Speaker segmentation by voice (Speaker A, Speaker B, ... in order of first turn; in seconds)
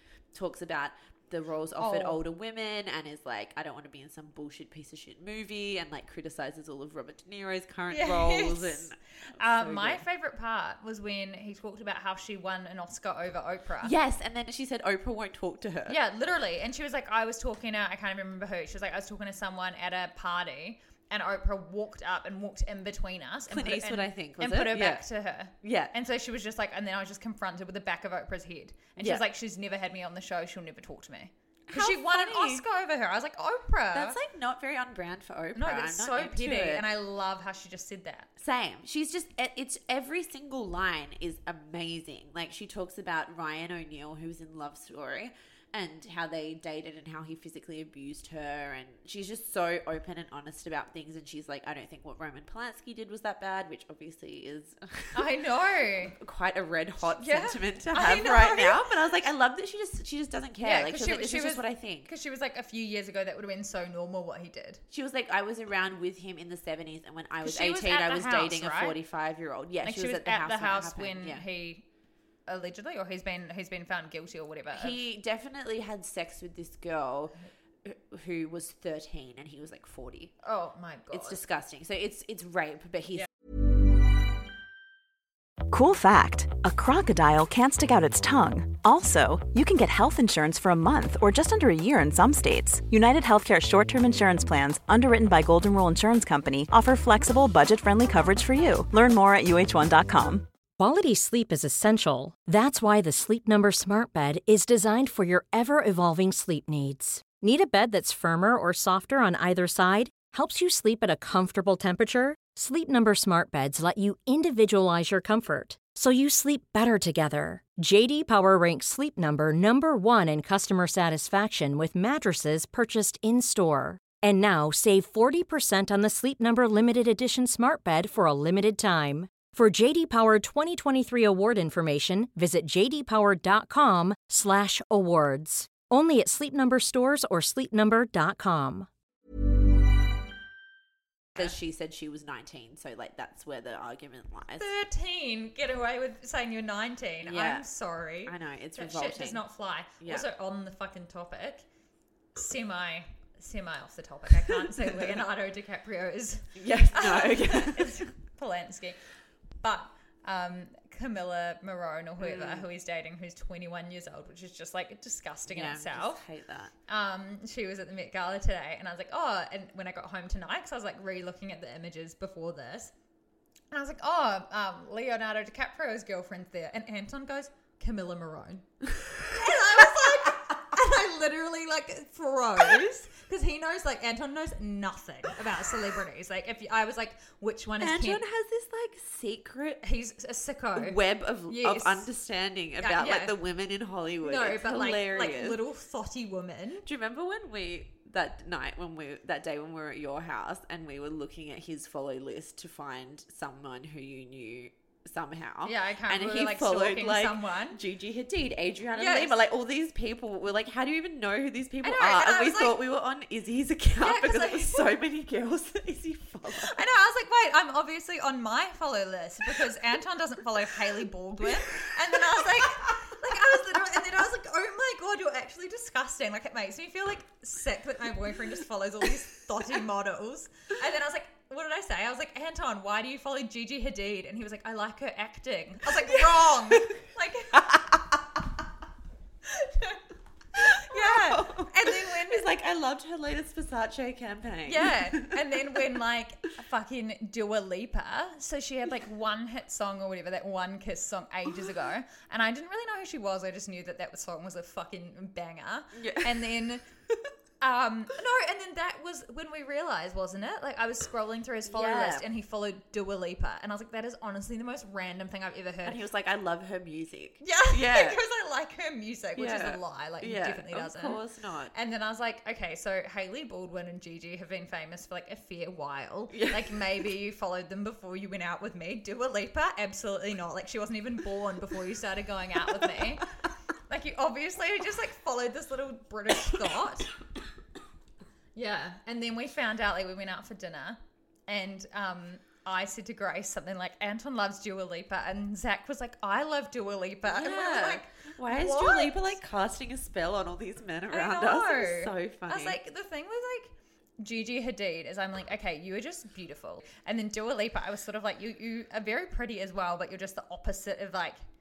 Speaker A: 0.3-10.1, 13.8-16.0, 23.5-25.1, 25.6-25.9, 29.0-29.2, 31.7-32.6, 33.9-36.9, 38.4-55.3, 56.1-62.1, 64.9-71.4, 74.7-80.3, 81.1-83.3, 141.4-144.7, 147.2-147.7, 148.2-149.4, 150.0-150.3, 156.6-158.1, 162.2-162.7, 165.5-166.7, 187.8-189.8, 190.8-195.6, 196.8-216.8, 236.1-236.5, 237.6-237.8, 240.6-246.0, 255.9-256.5, 261.7-262.3, 265.9-268.2, 269.4-271.7, 276.3-276.8, 297.3-302.8
Speaker B: 1.8-2.2, 7.9-13.9, 15.9-34.2, 35.5-38.3, 55.1-56.2, 57.2-58.8, 60.6-64.8, 67.4-69.0, 69.8-71.8, 72.5-75.0, 80.4-81.4, 144.6-151.7, 152.4-159.0, 159.6-166.2, 166.9-172.9, 173.7-178.7, 179.2-188.2, 189.8-192.1, 192.8-193.4, 194.2-196.8, 205.6-207.8, 209.0-209.3, 211.8-212.8, 214.0-214.9, 216.6-237.6, 239.5-240.0, 240.6-242.5, 244.7-256.8, 257.6-266.0, 267.4-271.2, 271.7-283.3, 283.9-287.1, 288.6-299.4, 301.1-311.4
Speaker C: 85.7-100.5
Speaker D: 100.8-138.9